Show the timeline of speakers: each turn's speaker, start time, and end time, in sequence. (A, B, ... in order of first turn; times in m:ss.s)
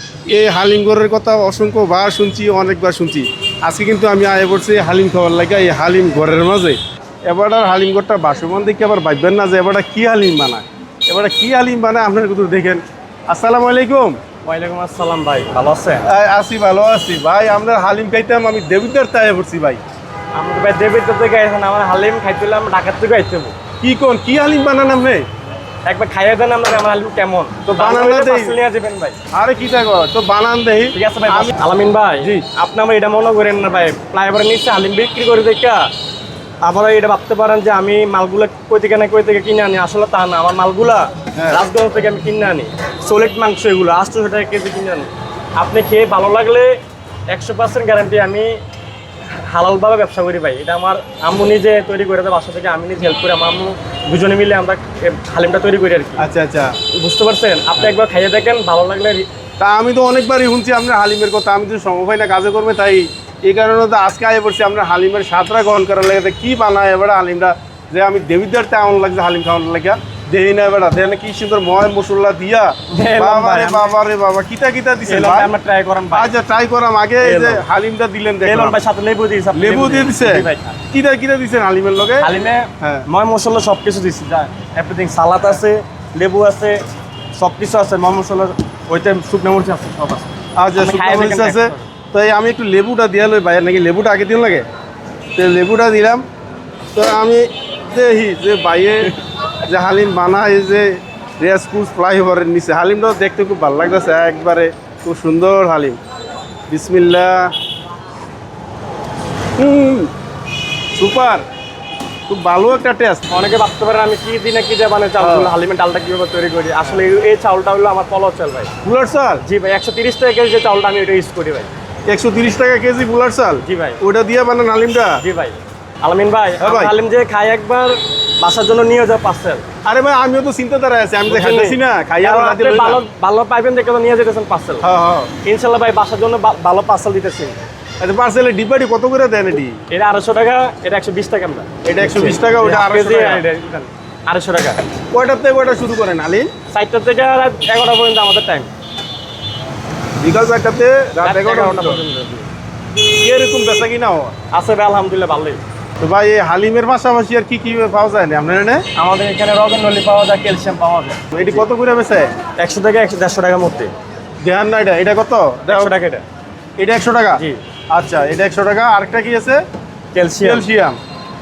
0:00.3-0:14.2 A
0:14.4-0:16.0 B
0:16.0-0:19.8 A
0:20.3-0:23.6 B
0:23.8-0:25.2 A
0:25.8-0:29.2 B
0:27.6-0:28.6 A
0:29.3-0:31.5 A
0:30.9-0:35.9 B
0:36.6-0:48.6 B
0:49.3-0:56.2 B
0:56.2-0:56.7 A
0:56.9-0:59.3 B
0:59.6-1:15.5 A
1:12.9-1:13.9 B
1:15.1-1:16.3 B
1:16.1-1:18.8 A
1:17.2-1:17.6 B
1:18.4-1:20.8 B
1:19.5-1:22.3 A
1:22.2-1:26.8 B
1:27.3-1:31.9 B
1:30.6-1:34.6 A
1:35.4-1:36.2 A
1:36.9-1:39.1 A
1:39.7-1:46.0 A
1:46.7-1:47.5 A
1:49.6-1:50.1 A
1:50.9-1:51.4 A
1:52.3-1:53.2 A
1:53.3-1:58.7 B
1:55.2-1:55.5 A
1:58.8-1:59.4 A
1:59.4-2:01.7 B
2:02.1-2:05.2 A
2:03.6-2:04.0 B
2:05.2-2:09.6 B
2:06.6-2:06.9 A
2:09.8-2:13.0 A
2:11.3-2:14.8 B
2:14.8-2:15.3 A
2:15.4-2:17.6 B
2:18.0-2:19.8 A
2:19.9-2:24.8 B
2:21.8-2:23.4 A
2:25.1-2:26.5 A
2:26.7-2:28.7 B
2:30.2-2:32.0 A
2:31.2-2:32.5 B
2:33.2-2:34.3 A
2:34.5-2:35.6 B
2:36.0-2:38.8 A
2:39.0-2:41.6 B
2:41.3-2:42.3 A
2:42.6-2:43.9 B
2:44.4-2:45.9 A
2:45.7-2:46.2 B
2:46.8-2:49.6 A
2:50.1-2:50.7 B
2:50.4-2:51.0 A